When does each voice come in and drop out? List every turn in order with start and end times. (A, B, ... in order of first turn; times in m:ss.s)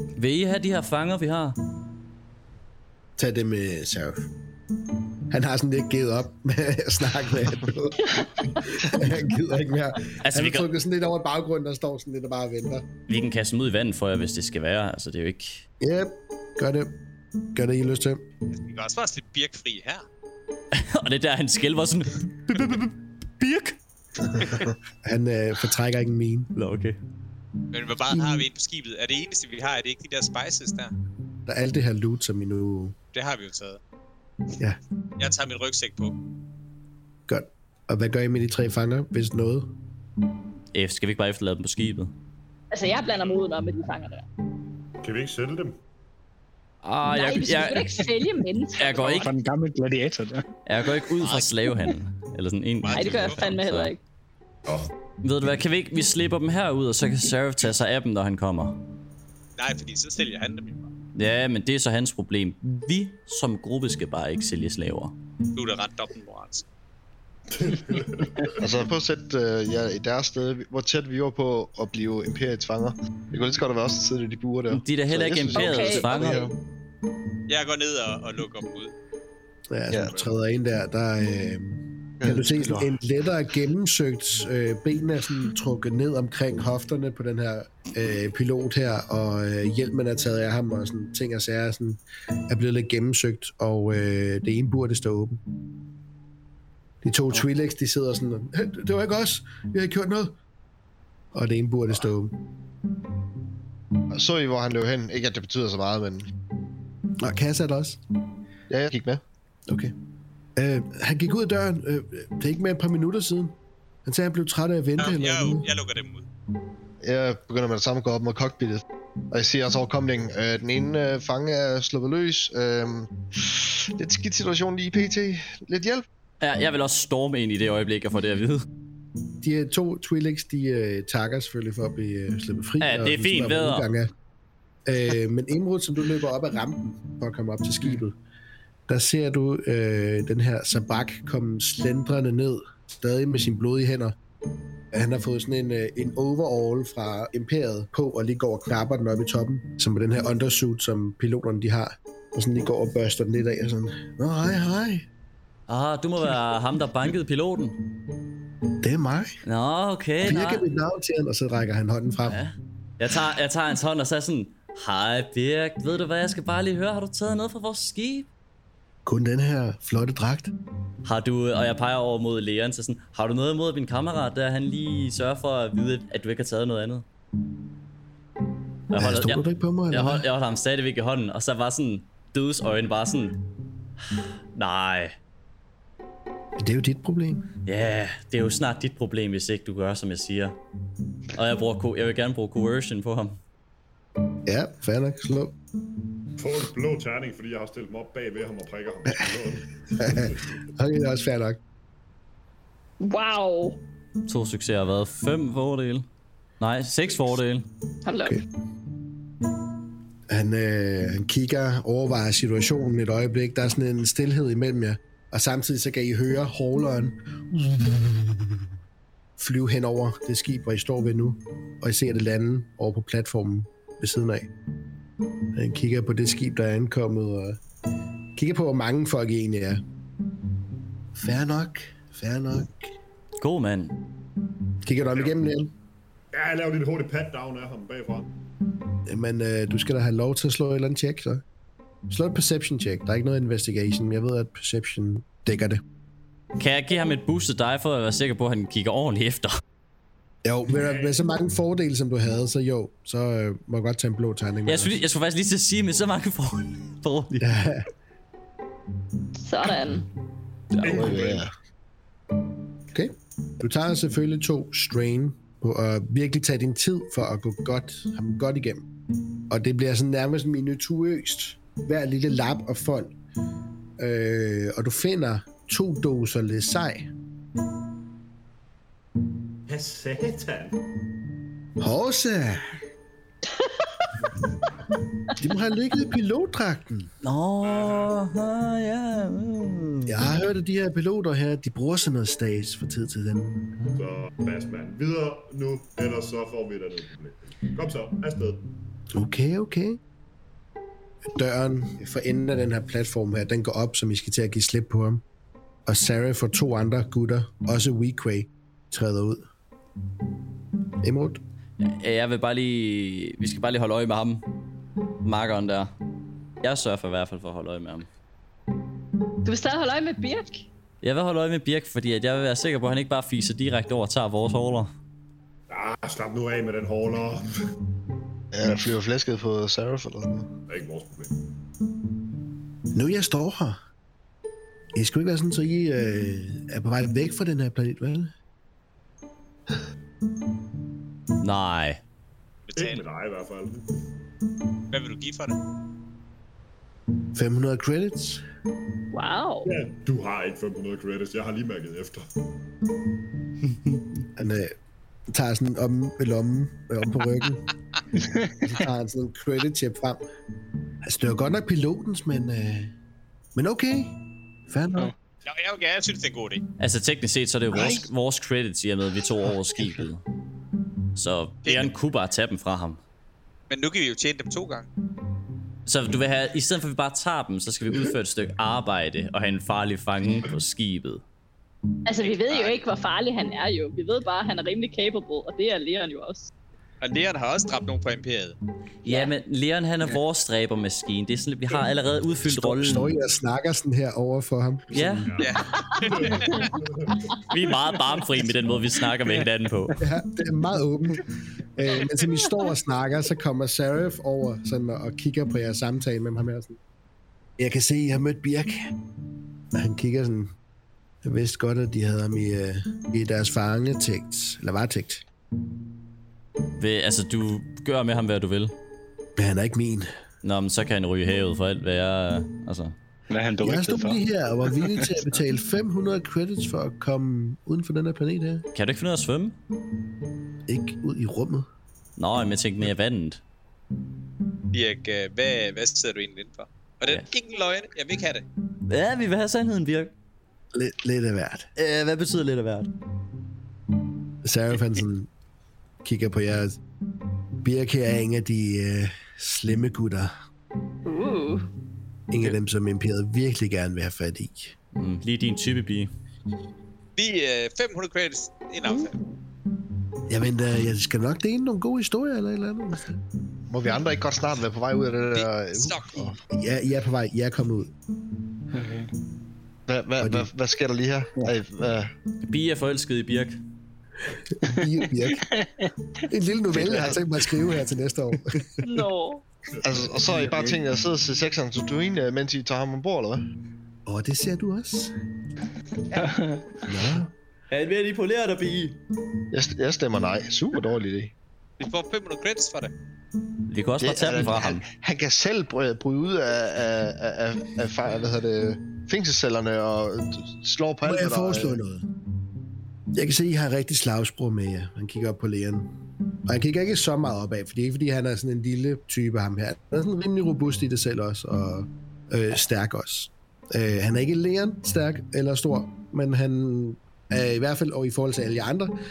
0:00.2-0:01.6 A
0:03.2-0:04.2 B
0:05.3-0:12.8 B
0:10.2-0:10.7 A
0:13.1-0:15.6 A
0:15.8-0:16.9 B
0:17.5-0:18.2 B
0:18.5-0:20.0 C
0:20.7-0:23.8 A
0:25.0-0:26.5 B
0:26.5-0:27.0 A
0:27.7-0:30.9 C
0:28.1-0:28.5 B
0:31.4-0:32.9 B
0:33.1-0:33.8 C
0:35.2-0:36.1 C
0:37.3-0:39.7 B
0:40.7-0:42.1 A
0:42.7-0:44.2 D
0:45.0-0:45.8 E
0:46.8-0:47.9 A
0:47.1-0:49.2 D
0:48.8-0:49.3 A
0:49.0-0:50.4 F
0:50.6-0:53.9 A
0:51.2-0:51.5 C
0:52.8-0:53.6 C
0:52.9-0:54.0 D
0:55.2-0:58.8 A
0:59.6-1:00.9 C
1:01.1-1:05.1 A
1:05.5-1:06.6 C
1:07.5-1:08.6 E
1:08.6-1:16.5 G
1:14.7-1:16.5 A
1:15.5-1:16.0 D
1:16.1-1:16.5 B
1:17.5-1:18.9 C
1:19.7-1:35.4 B
1:22.2-1:23.0 G
1:37.0-1:40.4 B
1:41.3-1:42.3 B
1:44.1-1:46.3 G
1:47.2-1:48.0 B
1:48.7-1:49.2 G
1:49.7-1:49.9 B
1:50.6-1:55.6 B
1:55.0-1:56.2 C
1:57.0-2:06.0 G
2:06.4-2:08.6 A
2:09.4-2:14.1 B
2:12.8-2:13.9 A
2:14.9-2:18.2 B
2:18.9-2:24.1 B
2:24.9-2:35.0 B
2:35.7-2:37.8 A
2:38.8-2:39.4 B
2:39.4-2:40.6 A
2:40.2-2:42.4 B
2:42.2-2:48.3 A
2:49.0-2:50.5 B
2:51.0-2:57.0 A
2:58.9-3:03.4 A
2:58.9-3:00.2 B
3:04.5-3:05.1 A
3:06.6-3:07.4 B
3:07.6-3:10.6 A
3:11.3-3:13.4 A
3:14.5-3:15.5 B
3:16.4-3:20.4 E
3:20.0-3:21.6 B
3:23.0-3:23.8 D
3:24.3-3:26.0 A
3:26.6-3:27.6 A
3:28.0-3:28.4 D
3:30.3-3:38.6 B
3:39.4-3:44.5 B
3:45.5-3:47.6 B
3:48.4-3:49.8 B
3:51.2-3:52.9 B
3:53.4-3:54.0 A
3:54.8-3:55.7 B
3:55.0-3:55.4 E
3:56.3-3:58.3 E
3:59.1-4:01.4 B
4:02.1-4:05.8 B
4:06.6-4:09.5 A
4:10.4-4:15.0 B
4:10.7-4:11.2 E
4:14.6-4:17.6 A
4:17.4-4:17.8 B
4:19.4-4:20.0 D
4:20.8-4:21.5 E
4:20.8-4:21.5 G
4:22.9-4:28.8 B
4:29.5-4:33.1 B
4:34.0-4:37.1 B
4:39.7-4:40.8 E
4:41.8-4:42.7 B
4:45.4-4:47.1 B
4:47.2-4:50.3 A
4:47.6-4:48.1 E
4:50.1-4:53.8 B
4:54.0-4:58.6 E
4:59.1-5:00.0 B
5:01.4-5:05.2 B
5:05.9-5:09.4 B
5:11.0-5:11.4 B
5:11.8-5:14.4 A
5:15.2-5:15.9 A
5:16.6-5:18.1 A
5:19.4-5:20.6 D
5:21.0-5:24.9 A
5:25.7-5:27.4 E
5:28.5-5:30.5 G
5:30.7-5:31.3 E
5:32.9-5:33.8 B
5:34.9-5:38.3 B
5:41.4-5:42.0 A
5:42.7-5:43.0 C
5:42.8-5:43.8 E
5:44.9-5:45.6 C
5:47.3-5:48.4 B
5:49.1-5:49.7 D
5:49.6-5:52.3 E
5:54.4-5:54.7 B
5:55.3-5:57.6 B
5:58.6-6:00.2 B
6:01.0-6:02.9 B
6:03.6-6:04.1 B
6:04.7-6:05.1 B
6:05.4-6:06.6 C
6:06.8-6:10.2 A
6:07.7-6:08.1 G
6:11.1-6:13.0 A
6:11.6-6:11.9 C
6:13.7-6:14.9 C
6:15.8-6:21.2 A
6:22.0-6:26.5 D
6:22.2-6:22.9 C
6:27.0-6:28.6 C
6:29.0-6:33.2 A
6:29.0-6:29.3 D
6:32.4-6:35.3 B
6:34.9-6:35.3 A
6:35.2-6:37.4 E
6:35.4-6:36.7 C
6:36.0-6:36.7 D
6:37.5-6:40.0 A
6:40.0-6:46.8 B
6:47.6-6:48.9 B
6:49.7-6:50.5 B
6:51.2-6:55.2 B
6:56.8-6:58.7 A
6:59.4-7:00.1 B
7:00.4-7:02.9 A
7:03.3-7:05.1 F
7:03.6-7:08.6 B
7:08.7-7:09.6 A
7:10.7-7:11.7 B
7:12.2-7:13.4 A
7:14.7-7:18.4 C
7:18.9-7:20.1 A
7:20.7-7:21.7 B
7:21.8-7:22.9 A
7:24.4-7:25.3 B
7:26.0-7:26.8 B
7:27.6-7:30.3 B
7:31.0-7:31.7 D
7:32.3-7:34.7 B
7:35.0-7:36.1 A
7:37.2-7:39.2 C
7:40.3-7:43.2 B
7:43.7-7:46.4 G
7:45.3-7:46.3 C
7:46.5-7:47.9 B
7:48.7-7:49.1 F
7:49.9-7:52.1 G
7:50.2-7:50.5 B
7:52.4-7:53.6 A
7:54.5-7:55.4 B
7:55.3-7:55.9 F
7:56.3-7:58.7 B
7:56.8-7:57.1 G
7:58.8-7:59.4 D
7:59.8-8:03.4 G
8:04.0-8:05.1 B
8:06.1-8:06.7 F
8:06.8-8:07.3 B
8:07.7-8:09.0 A
8:09.5-8:11.3 G
8:11.8-8:12.9 C
8:13.7-8:14.8 A
8:14.0-8:21.8 G
8:21.0-8:22.0 B
8:23.1-8:25.9 B
8:26.5-8:38.9 B